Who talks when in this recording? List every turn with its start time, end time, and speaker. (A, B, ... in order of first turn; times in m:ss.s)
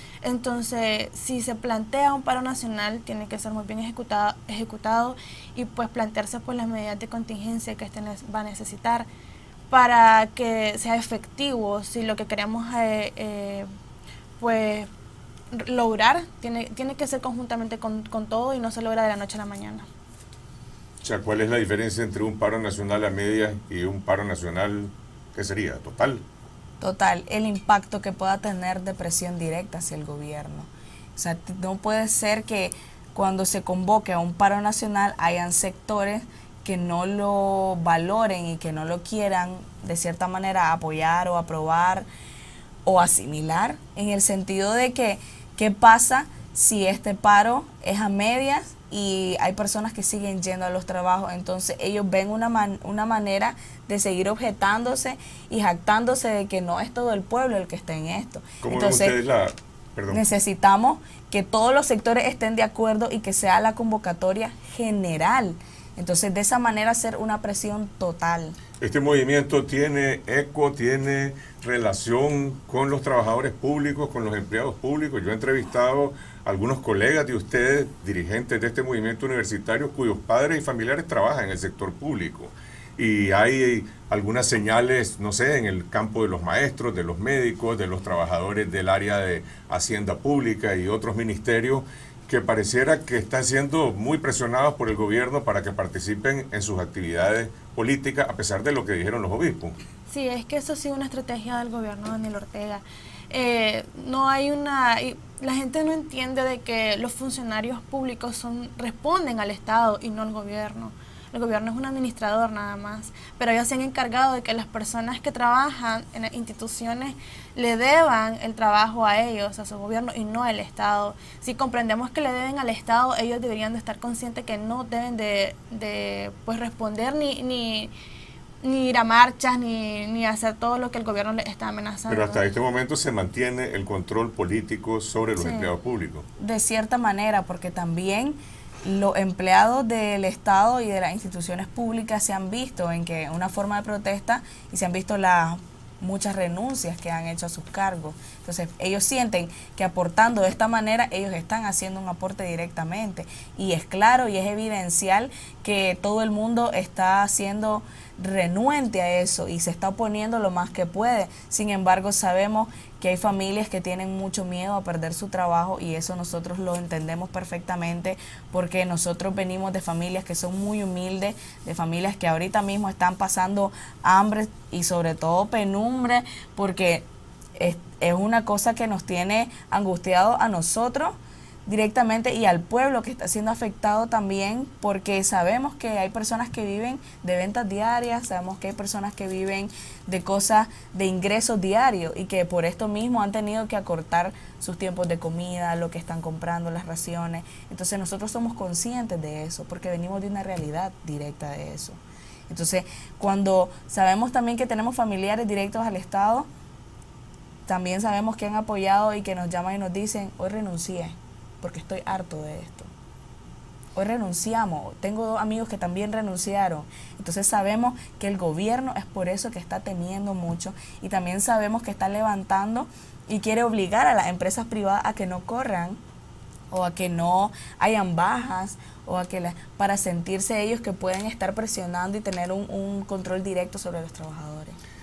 0:00.2-0:09.1 A
0:09.7-0:13.7 A
0:14.4-0:14.9 A
0:15.5-0:19.9 A
0:21.0-0:26.2 B
0:26.8-0:42.1 C
0:42.9-0:59.2 C
0:58.6-1:00.2 B
1:00.1-1:08.6 C
1:08.8-1:39.8 B
1:40.1-2:07.9 A
2:08.6-2:12.4 A
2:12.1-2:16.3 B
2:15.4-2:15.7 A
2:16.4-2:57.0 C
2:57.6-3:26.5 C
3:27.7-3:32.9 C
3:34.0-3:46.0 C
3:46.7-3:54.8 C